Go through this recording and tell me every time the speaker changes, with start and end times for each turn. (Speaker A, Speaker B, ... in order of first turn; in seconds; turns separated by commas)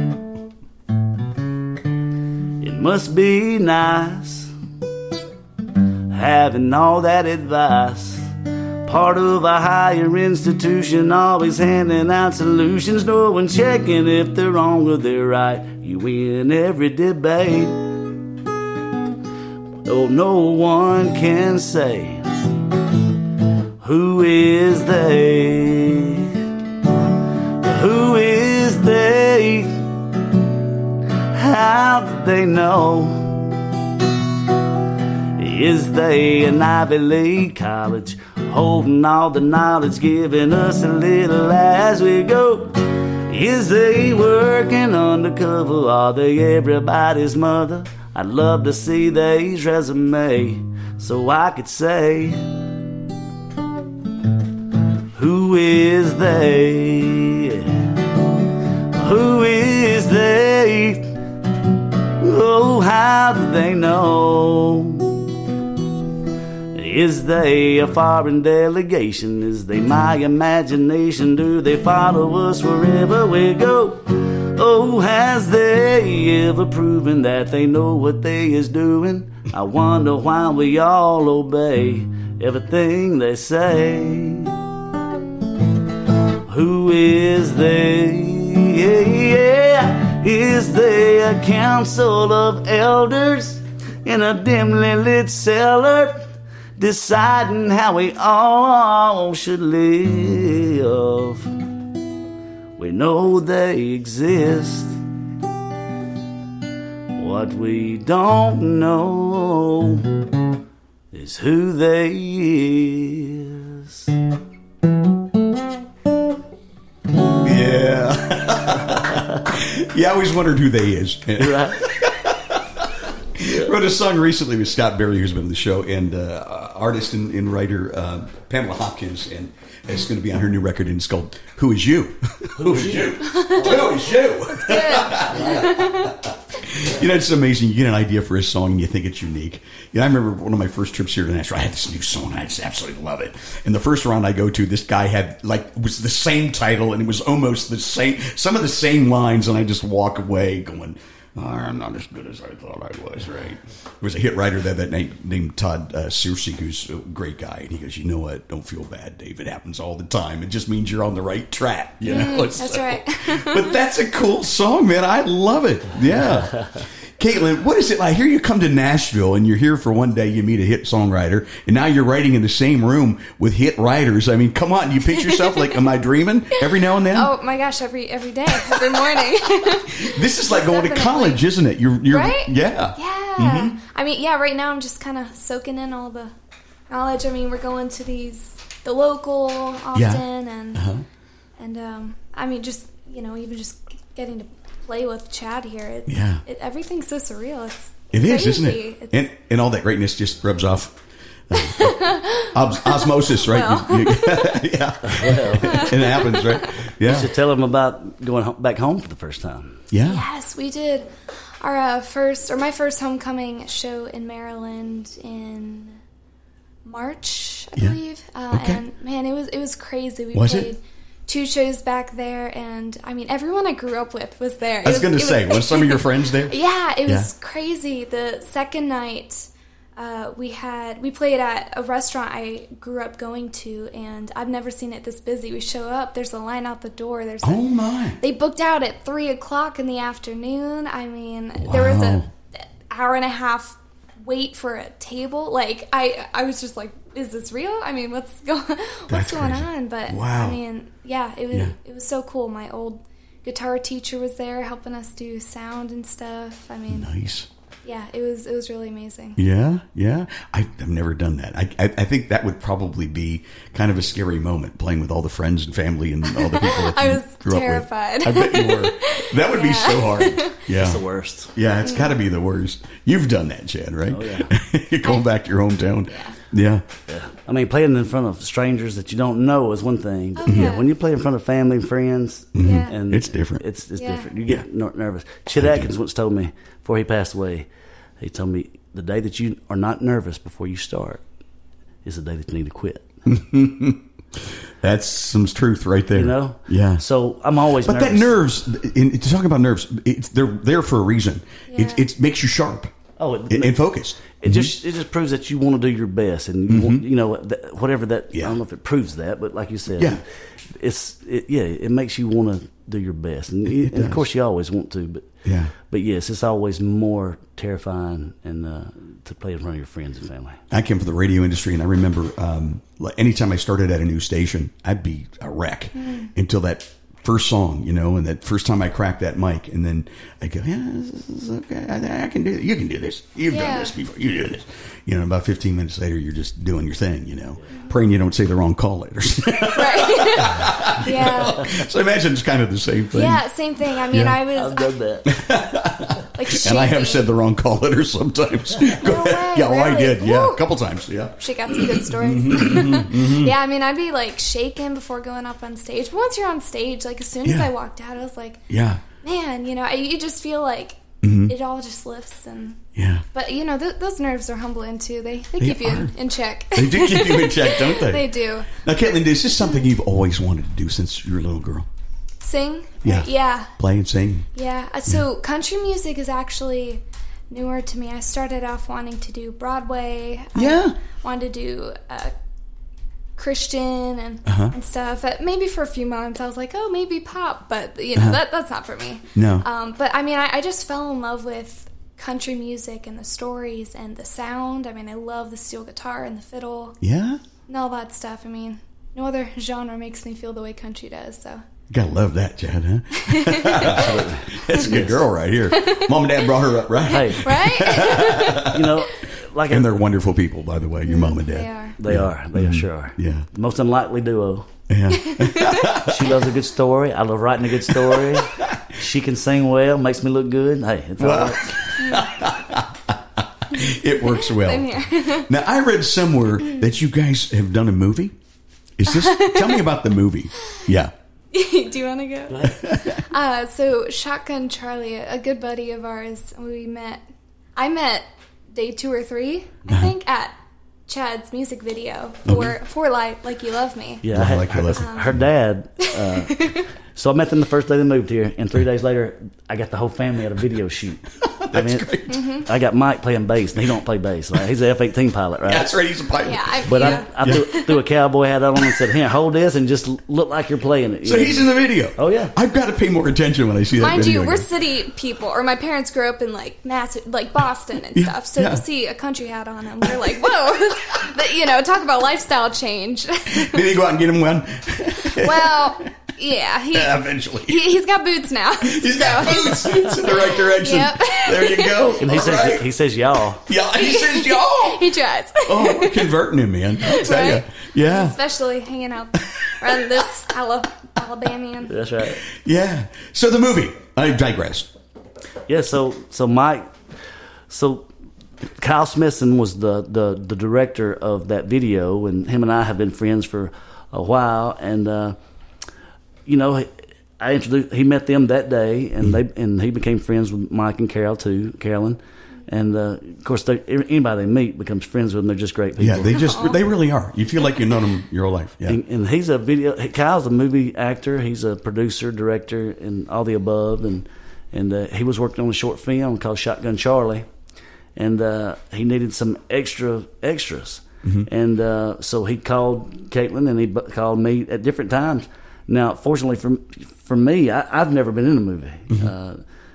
Speaker A: 2.6-4.5, Speaker A: 6.1-8.3, Speaker A: 8.8-17.8, Speaker A: 19.8-22.3, Speaker A: 23.8-26.4, Speaker A: 27.6-29.8, Speaker A: 31.3-33.4, Speaker A: 35.4-52.5, Speaker A: 55.1-57.8, Speaker A: 58.9-61.1, Speaker A: 62.2-65.2, Speaker A: 66.7-84.5, Speaker A: 86.5-101.5, Speaker A: 102.8-105.0, Speaker A: 107.2-110.0, Speaker A: 111.1-114.1, Speaker B: 117.4-177.3, Speaker A: 121.4-121.9, Speaker A: 132.6-133.8, Speaker C: 133.3-133.8, Speaker C: 134.6-136.2, Speaker A: 135.2-135.7, Speaker C: 162.0-163.7, Speaker C: 176.7-181.4, Speaker B: 178.5-183.8, Speaker C: 182.1-186.3, Speaker C: 186.9-190.9, Speaker B: 189.9-191.0, Speaker C: 191.6-199.2, Speaker B: 196.1-196.4, Speaker B: 198.1-201.0, Speaker B: 201.5-207.3, Speaker C: 201.6-204.7, Speaker A: 205.0-205.9, Speaker C: 205.7-206.8, Speaker A: 207.0-209.8, Speaker B: 209.9-210.2, Speaker C: 210.0-211.1, Speaker C: 211.6-216.0, Speaker C: 216.8-237.6, Speaker B: 218.5-218.8, Speaker B: 220.3-220.7, Speaker B: 224.8-227.3, Speaker B: 237.4-238.2, Speaker C: 238.2-257.2, Speaker B: 241.6-242.3, Speaker B: 249.1-250.6, Speaker B: 251.5-251.8, Speaker B: 256.9-257.5, Speaker C: 257.9-259.4, Speaker B: 259.4-276.9, Speaker C: 266.4-270.6, Speaker A: 270.7-271.5, Speaker C: 271.8-272.1, Speaker A: 274.1-274.5, Speaker C: 276.1-276.4, Speaker A: 277.1-287.7, Speaker C: 280.4-280.9, Speaker B: 280.4-280.8, Speaker B: 282.5-283.6, Speaker C: 282.6-283.0, Speaker C: 284.0-284.3, Speaker B: 285.6-285.9, Speaker A: 288.2-291.2, Speaker A: 292.0-293.2, Speaker B: 293.2-297.0, Speaker A: 296.1-298.4, Speaker B: 297.8-302.9, Speaker C: 301.7-302.0, Speaker A: 303.2-315.3, Speaker B: 303.5-304.7, Speaker B: 306.7-307.0, Speaker B: 313.8-314.2, Speaker B: 315.4-315.7, Speaker A: 315.9-320.6, Speaker B: 320.7-343.4, Speaker C: 326.0-326.3, Speaker C: 333.5-333.9, Speaker C: 339.6-341.8, Speaker C: 343.1-344.9, Speaker B: 344.0-344.4, Speaker A: 344.5-345.3, Speaker B: 345.2-353.5, Speaker C: 346.3-347.3, Speaker C: 348.9-350.6, Speaker C: 351.4-358.6, Speaker B: 357.4-357.7, Speaker B: 358.7-359.0, Speaker C: 359.2-362.8, Speaker B: 361.2-361.5, Speaker B: 363.0-363.2, Speaker C: 363.3-368.7, Speaker B: 365.6-366.2, Speaker B: 366.7-371.9, Speaker C: 372.4-373.7, Speaker B: 373.0-374.5, Speaker C: 374.5-382.3, Speaker B: 380.5-381.0, Speaker C: 383.4-397.0, Speaker B: 384.5-384.7, Speaker B: 388.1-388.4, Speaker B: 389.4-389.7, Speaker B: 397.0-397.4, Speaker C: 397.7-401.6, Speaker B: 401.9-409.0, Speaker C: 403.2-404.1, Speaker A: 403.9-405.3, Speaker C: 405.6-406.3, Speaker A: 407.1-407.5, Speaker C: 407.2-408.8, Speaker A: 408.5-409.9, Speaker B: 409.7-413.5, Speaker C: 411.1-412.0, Speaker A: 412.0-414.7, Speaker B: 414.9-416.4, Speaker C: 415.1-416.0, Speaker A: 416.0-421.9, Speaker B: 417.9-418.8, Speaker B: 421.2-428.4, Speaker C: 422.0-422.3, Speaker C: 424.2-425.5, Speaker B: 429.0-431.1, Speaker C: 429.1-429.8, Speaker C: 431.5-437.2, Speaker A: 432.5-432.8, Speaker B: 432.6-433.2, Speaker C: 437.8-440.5, Speaker C: 441.1-444.3, Speaker B: 442.5-442.8, Speaker A: 444.2-455.9, Speaker B: 444.3-445.4, Speaker C: 444.9-445.4, Speaker C: 446.2-446.8, Speaker B: 451.4-452.4, Speaker C: 452.3-452.7, Speaker B: 455.6-457.7, Speaker C: 456.4-458.0, Speaker A: 456.9-462.5, Speaker B: 461.2-464.7, Speaker C: 464.0-473.9, Speaker B: 468.1-468.9, Speaker B: 473.5-476.1, Speaker C: 475.3-482.3, Speaker B: 476.9-477.9, Speaker B: 478.8-482.9, Speaker A: 482.2-483.6, Speaker B: 483.5-485.1, Speaker C: 483.9-486.3, Speaker B: 485.6-488.4, Speaker C: 487.0-492.0, Speaker B: 489.6-490.2, Speaker A: 491.9-492.4, Speaker B: 492.2-494.9, Speaker A: 495.7-496.9, Speaker A: 497.7-498.1, Speaker A: 498.8-505.4, Speaker A: 506.5-516.3, Speaker B: 516.0-519.0, Speaker C: 516.3-516.8, Speaker A: 518.9-527.5, Speaker A: 528.1-539.6